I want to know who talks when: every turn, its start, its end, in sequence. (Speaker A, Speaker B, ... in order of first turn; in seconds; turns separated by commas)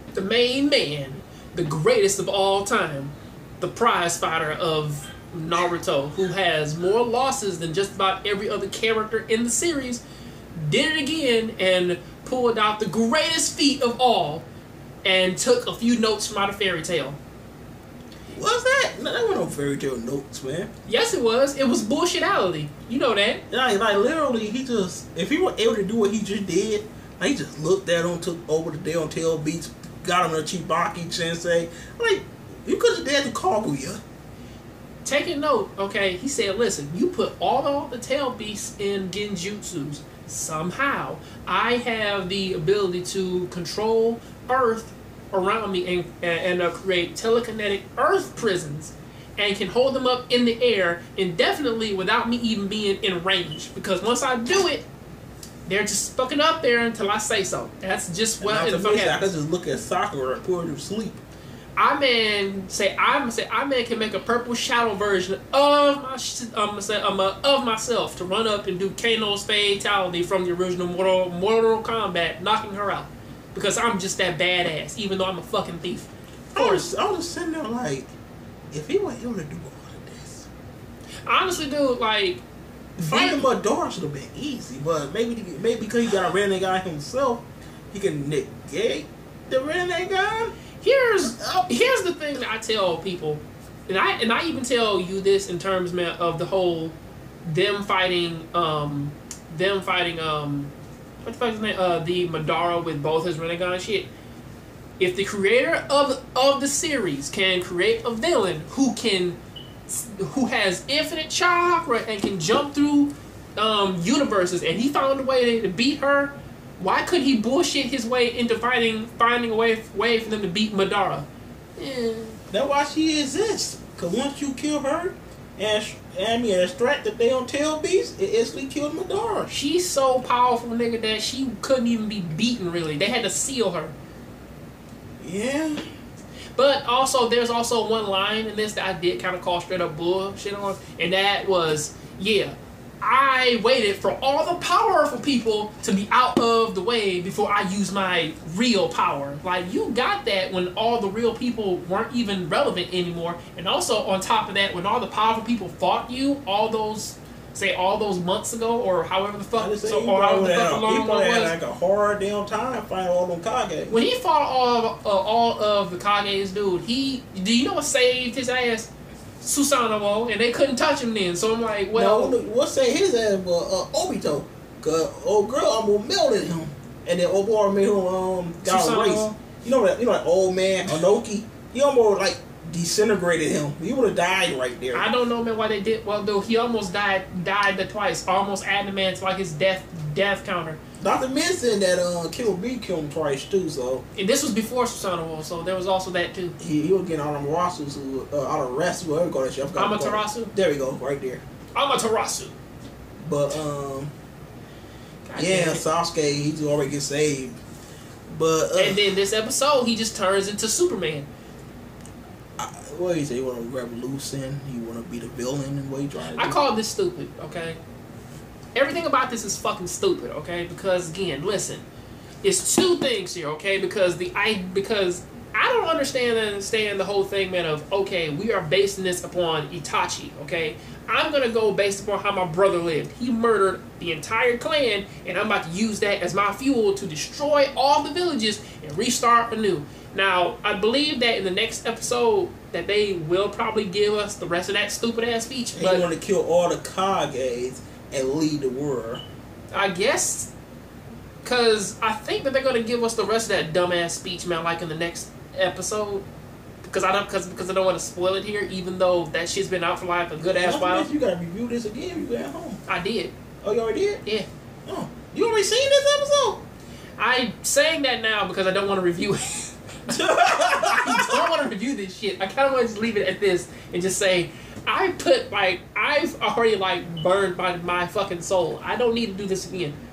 Speaker A: 0.1-10.0, Speaker A: 10.6-14.5, Speaker A: 15.0-17.2, Speaker B: 18.3-20.7, Speaker A: 20.9-23.4, Speaker B: 23.5-34.0, Speaker A: 35.0-54.9, Speaker A: 55.7-59.3, Speaker B: 58.4-61.2, Speaker A: 61.8-76.9, Speaker B: 76.5-78.1, Speaker B: 78.7-80.5, Speaker A: 81.3-82.4, Speaker A: 83.0-83.5, Speaker B: 83.0-90.6, Speaker A: 90.8-104.1, Speaker B: 91.3-91.7, Speaker A: 105.0-109.4, Speaker A: 109.9-122.4, Speaker B: 122.5-129.6, Speaker A: 129.5-133.9, Speaker B: 135.2-135.8, Speaker A: 136.6-161.6, Speaker B: 159.6-164.0, Speaker A: 163.9-168.9, Speaker A: 169.4-172.4, Speaker B: 171.9-185.1, Speaker A: 178.6-179.3, Speaker A: 184.9-190.8, Speaker B: 191.0-194.0, Speaker A: 194.2-196.6, Speaker B: 196.6-201.4, Speaker A: 199.8-200.5, Speaker A: 201.8-202.6, Speaker B: 203.2-204.1, Speaker A: 205.3-205.8, Speaker B: 205.3-207.6, Speaker B: 208.3-209.1, Speaker A: 208.8-211.3, Speaker B: 212.6-216.6, Speaker A: 216.3-217.8, Speaker A: 218.8-221.8, Speaker A: 222.4-246.1, Speaker B: 245.8-249.2, Speaker A: 249.7-250.5, Speaker A: 251.4-256.2, Speaker A: 256.8-261.1, Speaker B: 260.4-262.8, Speaker A: 262.9-263.3, Speaker B: 263.6-264.2, Speaker B: 264.9-266.6, Speaker A: 267.2-280.0, Speaker B: 270.1-271.4